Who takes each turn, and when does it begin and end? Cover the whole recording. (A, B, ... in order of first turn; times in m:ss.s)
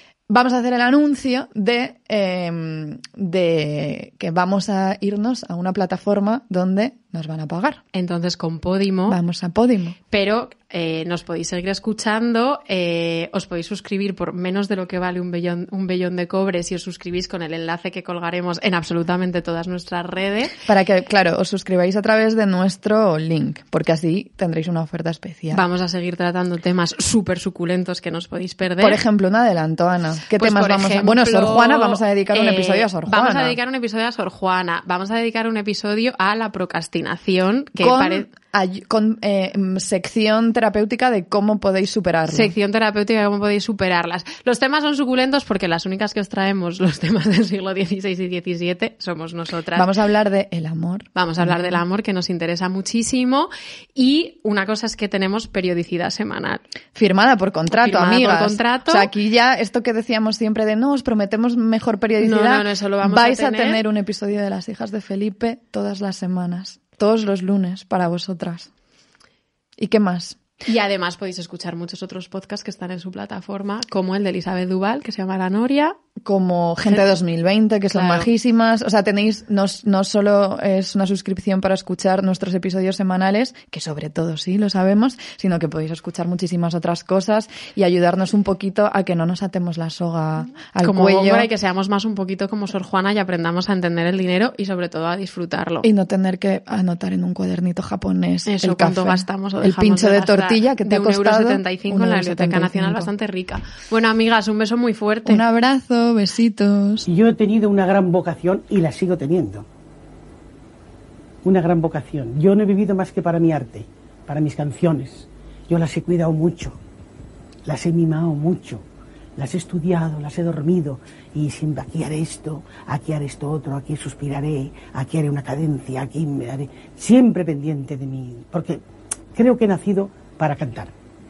0:00.3-0:07.8 A
0:07.9-0:09.2 B
0:09.1-0:10.0 A
0:10.1-0:20.5 B
0:20.6-0:25.6 A
0:25.5-0:29.0 B
0:28.8-0:33.6 A
0:30.3-0:38.3 B
0:37.8-0:42.5 A
0:42.3-0:49.9 B
0:49.7-0:51.8 A
0:51.2-0:56.6 B
0:56.9-1:08.7 A
0:57.7-0:59.1 B
1:02.2-1:03.8 B
1:09.8-1:10.4 A
1:10.6-1:16.0 B
1:16.2-1:31.5 A
1:17.9-1:18.3 B
1:30.8-1:35.9 B
1:35.8-1:43.1 A
1:38.4-1:45.4 B
1:45.2-1:47.1 A
1:47.1-1:49.6 C
1:51.4-1:56.7 C
1:57.6-1:58.8 C
1:59.4-2:08.8 C
2:09.3-2:10.9 C